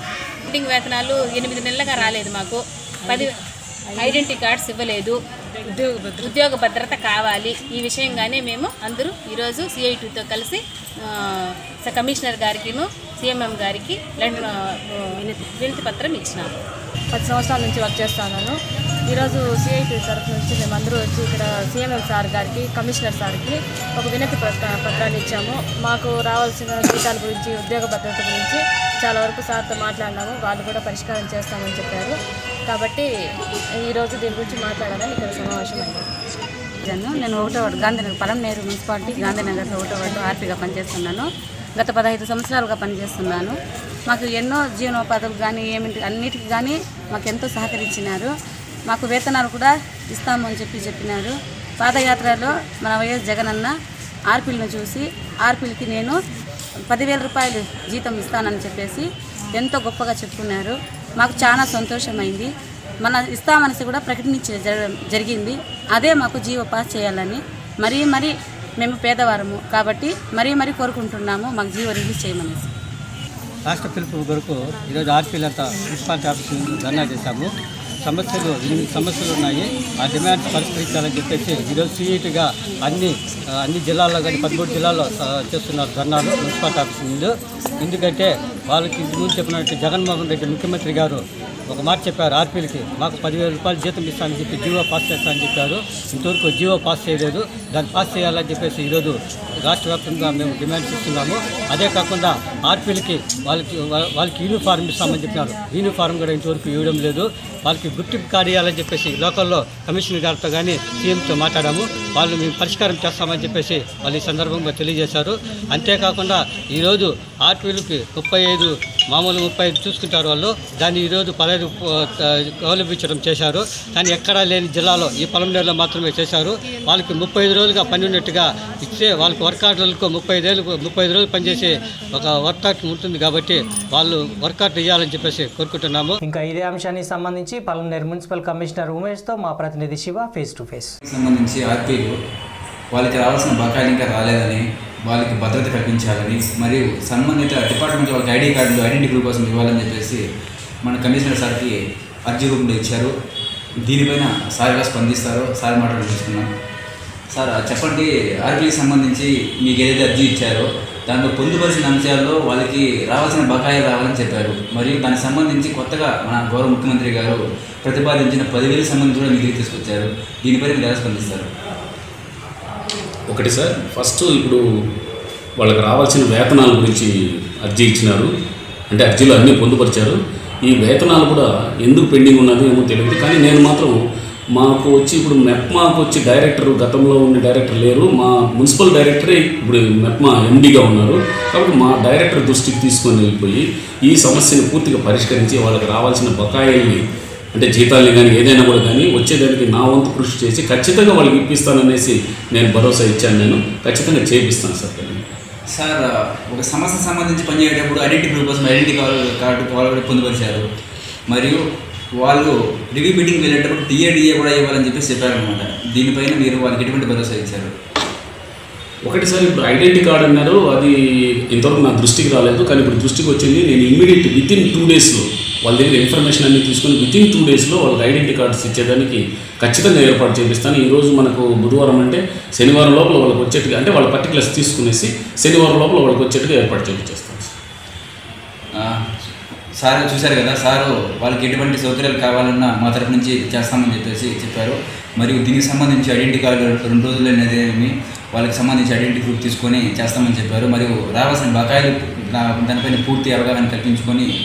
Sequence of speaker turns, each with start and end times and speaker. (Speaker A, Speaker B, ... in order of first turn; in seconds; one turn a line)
Speaker A: 0.5-3.3
Speaker A: 4.0-5.2
Speaker B: 5.8-6.3
Speaker A: 6.2-16.5
Speaker B: 17.1-33.1
Speaker B: 33.8-36.1
Speaker C: 36.9-41.3
Speaker C: 41.8-43.5
Speaker C: 44.1-48.3
Speaker C: 48.9-53.7
Speaker C: 54.3-56.2
Speaker C: 56.9-62.5
Speaker C: 63.0-72.7
Speaker D: 73.7-136.2
Speaker E: 136.2-140.9
Speaker F: 141.1-142.2
Speaker F: 142.9-150.2
Speaker F: 150.8-151.8
Speaker F: 152.3-153.1
Speaker F: 153.8-156.5
Speaker F: 157.3-171.5
Speaker G: 173.3-174.6
Speaker G: 175.6-177.1
Speaker G: 177.6-178.3
Speaker G: 178.9-184.0
Speaker G: 184.6-197.0
Speaker G: 197.5-205.2
Speaker F: 205.7-210.7
Speaker F: 211.3-211.6
Speaker F: 212.2-217.7
Speaker G: 219.1-220.9
Speaker G: 221.5-237.5
Speaker F: 238.8-239.0
Speaker F: 239.8-254.3